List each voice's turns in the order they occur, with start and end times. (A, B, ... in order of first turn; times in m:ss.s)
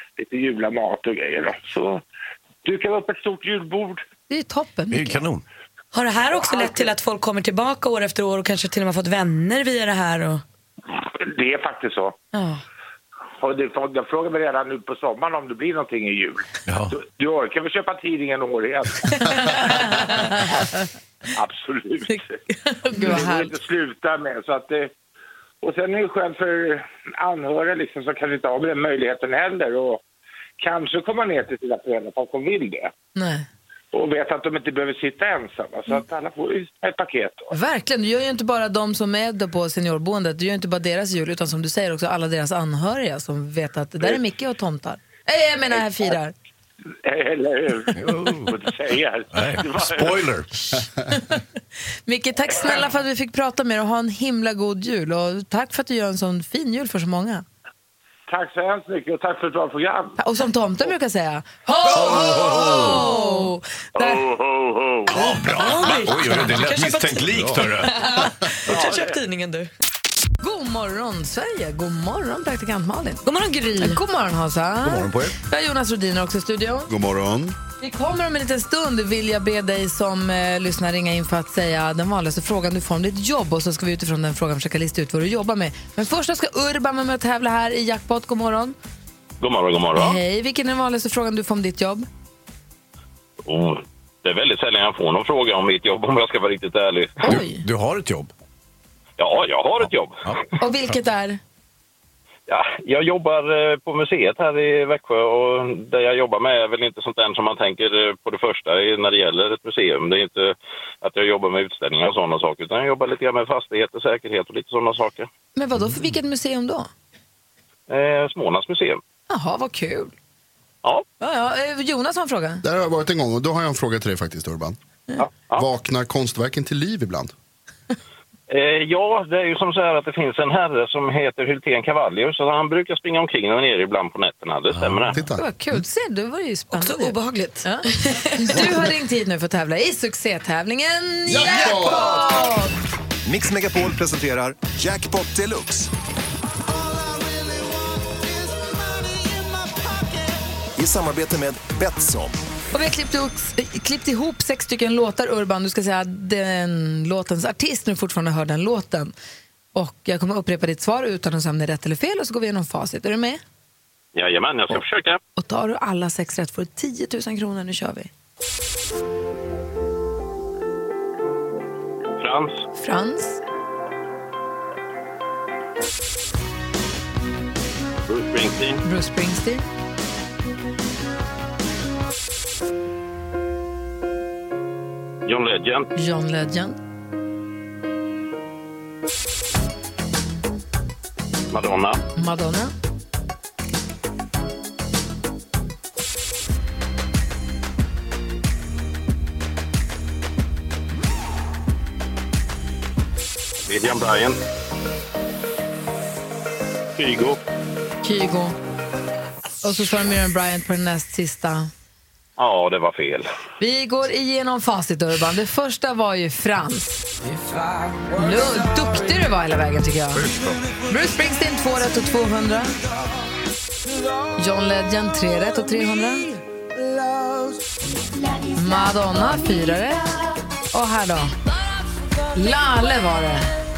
0:00.2-0:02.0 A
0:02.6-0:04.0 A
0:04.3-0:05.2 B
0:04.9-0:05.4 C
0:05.9-0:10.4 D
0:06.4-0:06.9 A
0:11.1-0:12.2 A
0:12.3-0:12.6 D
0:13.4-0:20.4 A
0:16.7-0:17.0 C
0:19.2-0:20.5 B
0:21.4-0:22.3 A
0:22.1-0:23.5 B
0:23.0-0:24.9 A
0:25.6-0:30.0 A
0:30.6-0:32.9 A
0:33.2-0:33.5 B
0:33.9-0:37.5 A
0:37.5-0:46.3 B
0:47.0-0:50.2 A
0:48.0-0:48.6 C
0:49.3-0:50.5 C
0:50.7-0:51.4 B
0:52.1-0:57.4 B
0:58.3-1:00.2 A
1:00.2-1:04.2 B
1:02.2-1:03.0 C
1:04.0-1:05.3 A
1:05.1-1:08.0 C
1:05.4-1:09.7 D
1:08.7-1:09.2 A
1:10.4-1:13.2 B
1:13.3-1:14.0 D
1:13.8-1:16.9 B
1:14.8-1:15.4 C
1:16.9-1:17.6 E
1:17.8-1:28.8 B
1:29.4-1:30.2 F
1:30.0-1:32.1 B
1:33.4-1:37.4 F
1:37.2-1:37.6 B
1:37.3-1:38.3 C
1:39.2-1:40.3 F
1:39.8-1:40.4 C
1:40.6-1:41.4 B
1:42.5-1:55.3 F
1:55.6-1:56.9 B
1:57.9-1:59.0 F
1:59.3-2:00.1 B
2:01.2-2:02.6 B
2:02.6-2:04.8 E
2:05.2-2:05.7 F
2:05.6-2:07.3 E
2:08.5-2:15.2 F
2:14.8-2:15.1 C
2:15.1-2:15.8 E
2:15.3-2:22.7 B
2:16.7-2:18.7 D
2:21.3-2:22.5 E
2:23.2-2:25.9 G
2:30.8-2:32.4 G
2:32.7-2:39.1 B
2:39.7-2:43.4 B
2:44.2-2:45.2 F
2:45.4-2:48.1 B
2:52.2-2:52.6 F
2:52.8-2:53.4 B
2:58.1-2:58.8 F
2:58.8-2:59.6 B
3:05.3-3:05.9 F
3:06.0-3:06.8 B
3:11.5-3:12.0 F
3:12.2-3:12.7 B
3:23.7-3:24.4 F
3:27.0-3:27.4 F
3:28.0-3:28.6 B
3:29.6-3:31.7 B
3:32.4-3:33.3 F
3:33.6-3:37.1 B
3:38.1-3:40.3 B
3:40.1-3:40.6 C
3:40.9-3:42.8 B
3:44.4-3:46.4 B
3:48.6-3:50.1 B
3:50.7-3:51.3 B
3:52.3-3:53.5 B